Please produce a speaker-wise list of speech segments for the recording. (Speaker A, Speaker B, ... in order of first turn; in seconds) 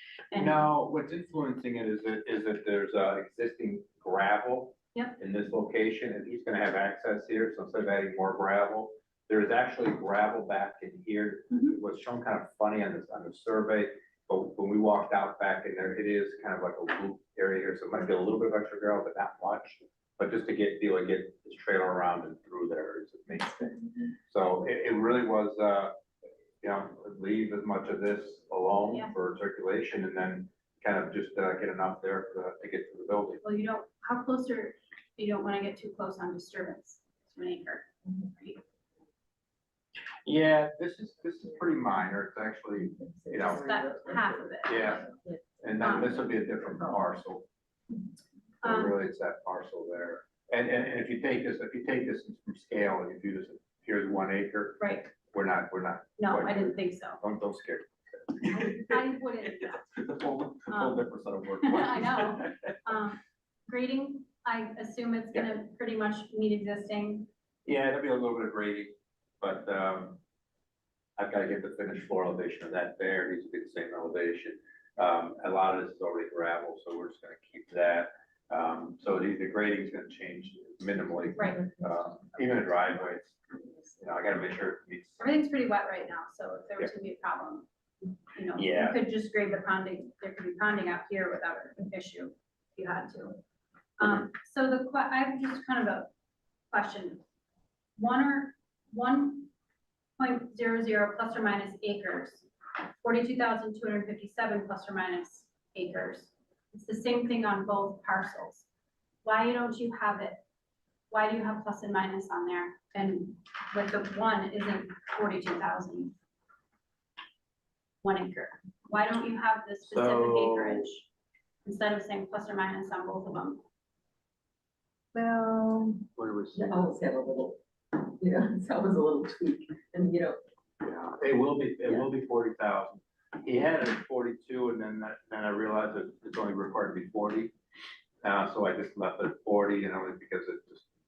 Speaker A: 0.3-0.6, 11.5-11.8, 33.4-38.6, 43.5-45.1, 45.8-46.2, 48.6-48.9, 54.8-55.1, 56.2-57.2, 58.5-60.0, 60.7-61.1, 61.6-67.3, 81.3-81.6, 85.2-87.7, 88.3-93.4, 94.0-96.1, 96.7-97.2, 98.0-99.5, 100.2-102.5, 103.0-108.7, 109.2-110.4, 111.1-116.2, 118.0-121.1, 121.7-123.6
Speaker B: 0.3-25.9, 26.6-33.4, 40.2-43.8, 44.6-45.1, 45.6-47.5, 48.6-59.0, 59.9-62.7, 67.7-70.2, 71.2-83.4, 84.0-85.2, 88.6-89.0, 119.9-120.9, 126.2-126.9, 130.8-137.5, 138.2-140.9
Speaker C: 43.1-44.4, 125.2-126.0, 126.6-130.4